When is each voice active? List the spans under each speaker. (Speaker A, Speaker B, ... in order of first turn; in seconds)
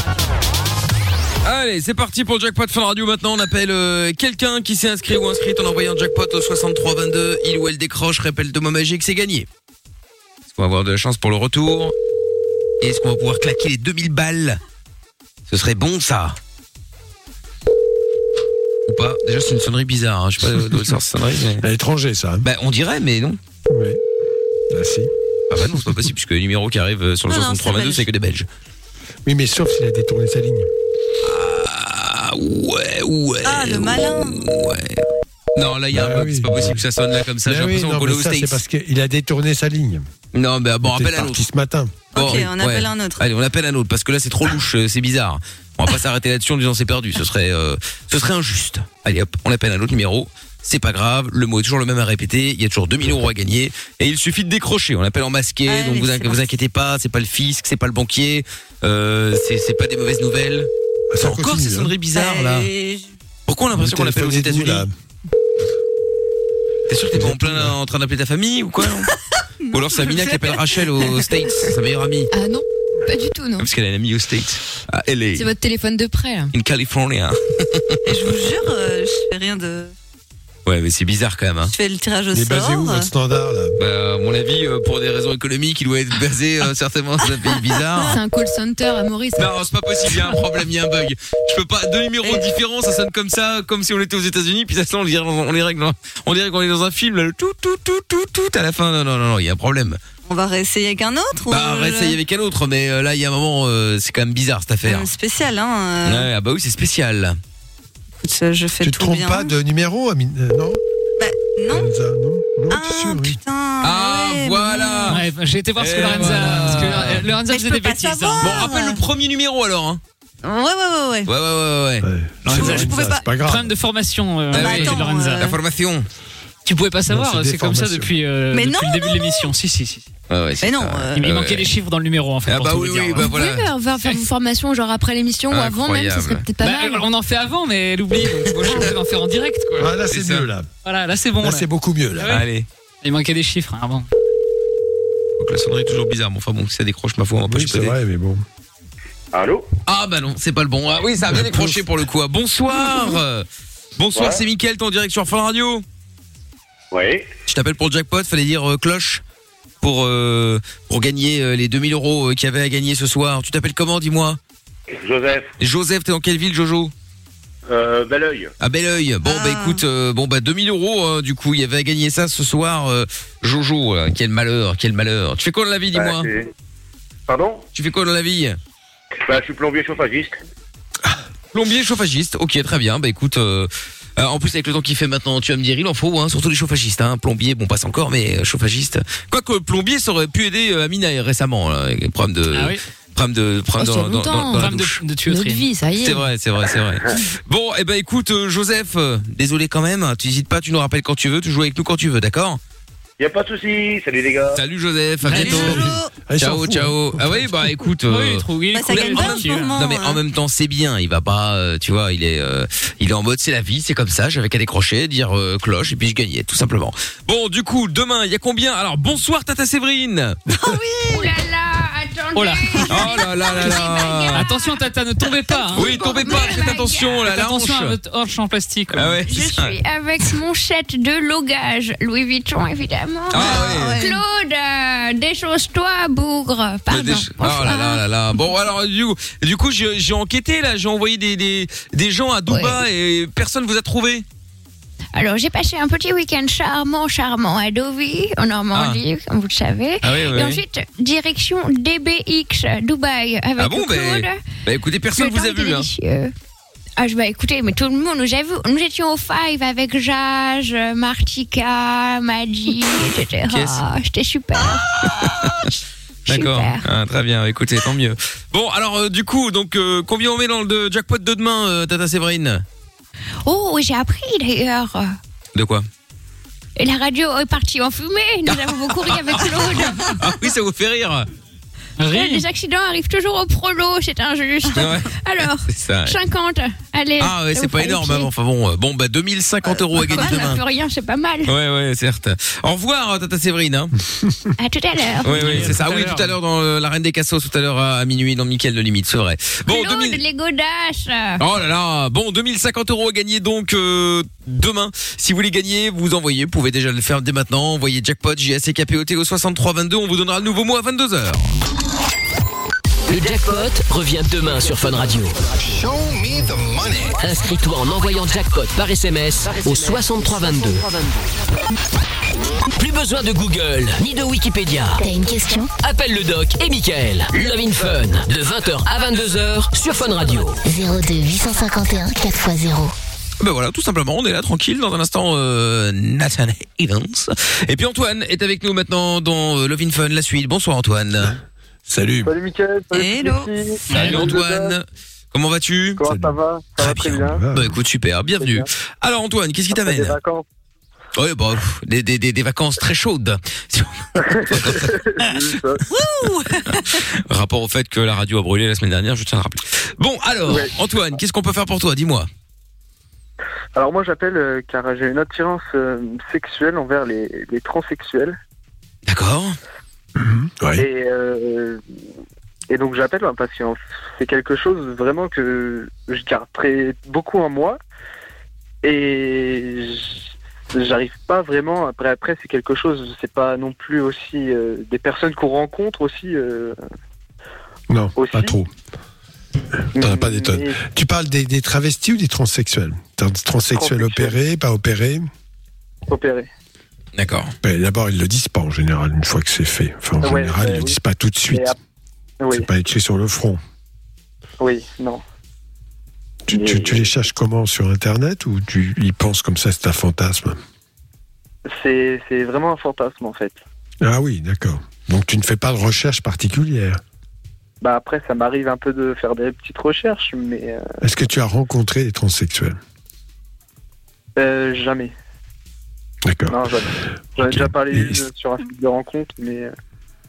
Speaker A: 1.4-9.5, 10.5-11.9, 12.8-14.6, 15.5-16.4, 18.9-21.6, 22.4-23.4, 25.5-28.5, 31.2-35.0, 35.5-38.6, 40.3-41.4, 42.1-60.7, 61.2-62.7, 63.5-64.9, 66.9-69.1, 69.7-72.3, 73.6-75.5, 76.5-78.0, 80.7-81.7, 83.8-88.2, 89.3-100.0, 101.5-105.1, 106.0-107.4, 113.8-115.2, 115.8-117.3, 118.4-120.0, 121.2-122.8, 124.5-126.1, 130.3-131.7, 132.4-133.7, 135.5-136.5, 138.6-138.9, 140.1-140.5, 142.3-142.7, 145.4-147.9, 149.8-153.4, 154.0-155.8, 157.5-159.2, 159.8-164.4, 165.6-166.9, 168.6-176.3, 177.7-178.6, 181.5-195.0, 196.0-202.6, 204.5-205.8, 206.4-220.4, 222.9-224.5, 225.7-228.0, 228.9-229.8, 233.3-234.0, 236.9-244.2, 248.7-249.0, 250.0-250.6, 253.6-255.9, 263.5-263.8, 264.6-265.7, 266.2-272.6, 275.5-275.9, 278.5-281.3, 284.7-285.1, 285.7-286.2, 287.2-290.6, 291.4-293.9, 295.2-300.2, 301.4-311.5, 333.4-341.4, 343.9-346.1, 346.8-350.2, 351.1-355.5, 356.6-362.3, 369.1-369.6, 397.1-397.5
Speaker B: 21.6-22.5, 23.7-24.0, 24.7-25.1, 29.2-30.7, 35.9-36.8, 37.4-40.0, 40.8-42.0, 61.1-61.9, 63.7-64.9, 67.1-67.7, 82.3-83.8, 108.8-110.8, 111.7-113.4, 122.0-123.7, 127.1-128.1, 139.8-140.7, 141.4-142.4, 147.5-148.4, 151.3-151.8, 205.4-207.7, 341.9-342.3, 346.0-346.3, 346.9-347.8, 370.2-370.9, 387.9-388.7, 389.9-395.3, 397.6-401.7, 402.5-403.6, 406.4-410.6, 414.0-417.0, 421.0-422.8, 426.2-426.7, 427.4-428.2
Speaker C: 27.3-28.1, 33.4-34.5, 42.1-43.2, 55.6-56.5, 62.1-63.1, 69.6-71.3, 78.0-79.9, 81.6-83.1, 100.2-102.2, 104.8-106.3, 108.2-109.5, 111.2-111.9, 112.7-115.2, 116.0-119.0, 120.4-121.3, 122.5-123.2, 124.5-125.6, 128.5-129.5, 130.6-131.2, 169.2-169.8, 205.3-206.1, 208.7-210.2, 220.5-221.3, 233.3-234.2, 342.9-343.5, 355.9-357.0
Speaker D: 72.3-73.7, 75.3-76.5, 88.0-89.5, 133.2-137.1, 193.8-196.2
Speaker E: 115.1-118.7, 122.5-125.5, 126.7-130.1, 131.2-133.3, 136.6-140.0, 140.8-141.7, 142.2-142.4, 143.0-144.1, 192.5-192.8, 194.5-195.6, 205.2-205.8, 208.1-209.8, 222.3-222.9, 224.3-226.0, 227.2-229.2, 282.0-282.4, 295.3-296.3, 343.9-344.3
Speaker F: 149.3-149.7, 154.1-154.4, 156.9-157.3, 164.9-165.5, 167.7-168.5, 175.9-176.5, 177.3-177.6, 179.2-180.4, 203.2-204.6
Speaker G: 221.1-224.8, 225.7-227.2, 229.2-238.0, 242.5-242.8, 245.1-254.6, 255.1-256.3, 257.0-264.9, 266.3-266.9, 273.4-275.1, 276.8-280.2, 282.1-288.3, 290.0-291.5, 294.6-295.7, 299.6-301.4
Speaker H: 313.1-315.5, 317.0-321.1, 322.7-325.0, 325.8-330.6
Speaker I: 325.0-325.7, 330.6-332.9
Speaker J: 342.2-344.8, 346.0-347.4, 348.4-348.7, 349.7-350.4, 354.2-355.8, 360.5-360.7, 363.7-368.4, 370.8-371.8, 372.7-377.8, 378.8-386.8, 388.1-388.6, 389.9-390.8, 393.7-394.4, 396.1-396.5, 400.2-401.0, 402.4-402.7, 404.6-405.2, 406.5-407.3, 411.7-413.6, 417.8-420.9, 424.4-425.1, 426.5-429.7